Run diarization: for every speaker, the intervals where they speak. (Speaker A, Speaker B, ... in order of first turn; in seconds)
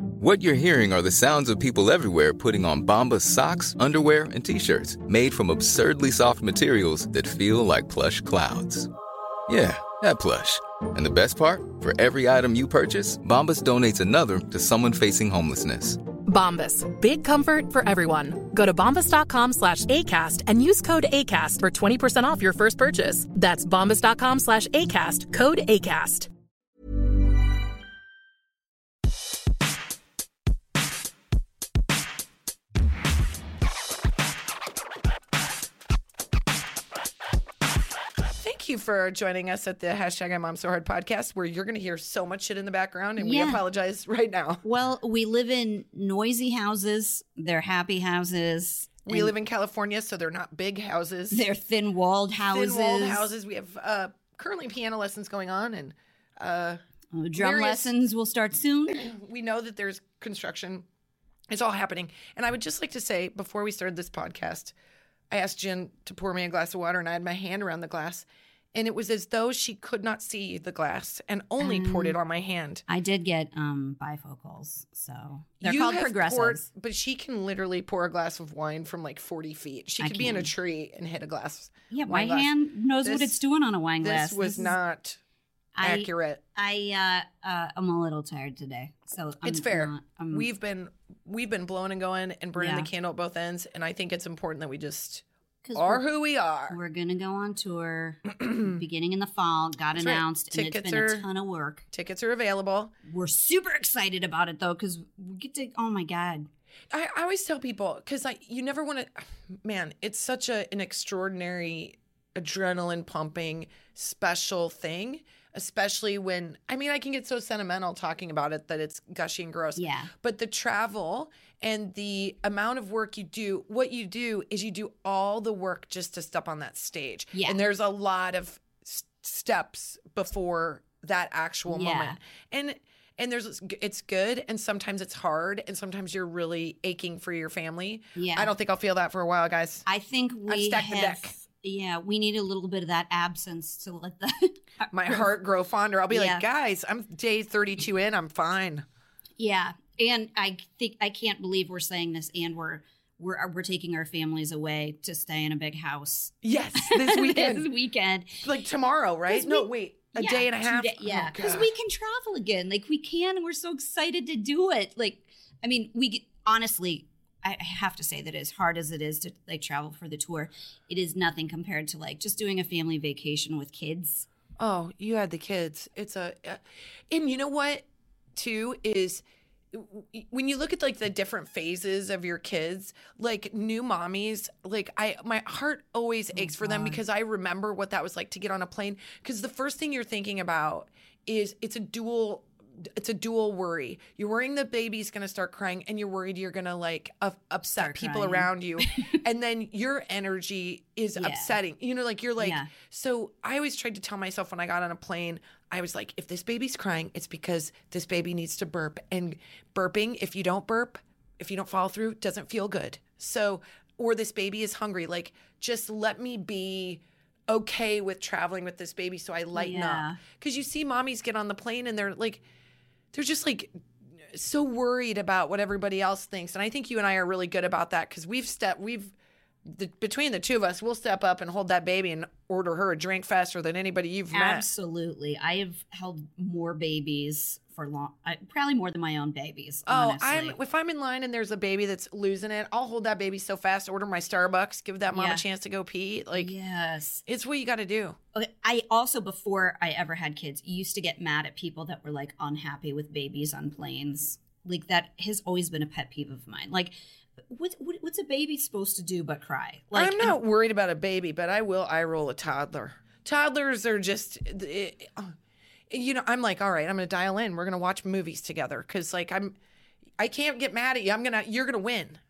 Speaker A: 0.2-8.9, 9.5-16.0
Speaker B: 16.3-26.3
Speaker C: 38.4-44.6, 49.1-51.5, 52.4-56.8, 57.4-57.9, 58.9-60.9, 61.5-64.7, 65.3-72.8, 75.6-82.5, 83.0-83.4, 84.0-85.2, 85.8-86.4, 89.4-95.2, 95.8-96.8, 98.5-98.7, 100.0-101.2, 101.9-102.9, 106.9-139.9, 140.5-141.3, 144.9-148.8, 156.4-157.7, 158.4-161.7, 174.6-222.4, 223.1-223.7, 224.3-229.1, 229.7-234.7, 239.9-246.5, 247.3-248.2, 259.9-265.3, 265.9-269.5, 270.2-272.2
Speaker D: 43.2-43.6, 44.6-49.3, 51.3-53.3, 57.1-59.0, 71.6-72.2, 72.9-76.7, 80.0-80.5, 81.9-84.8, 85.8-90.5, 92.6-92.9, 95.7-96.0, 96.7-101.8, 103.1-106.5, 119.8-120.1, 127.3-127.6, 131.7-132.2, 138.2-138.5, 139.9-145.2, 146.1-146.4, 149.4-158.4, 159.3-174.3, 186.3-187.0, 197.8-199.1, 201.2-201.6, 202.4-202.7, 219.5-220.2, 234.3-240.6, 245.1-245.4, 246.3-247.2, 248.3-256.9, 257.5-260.4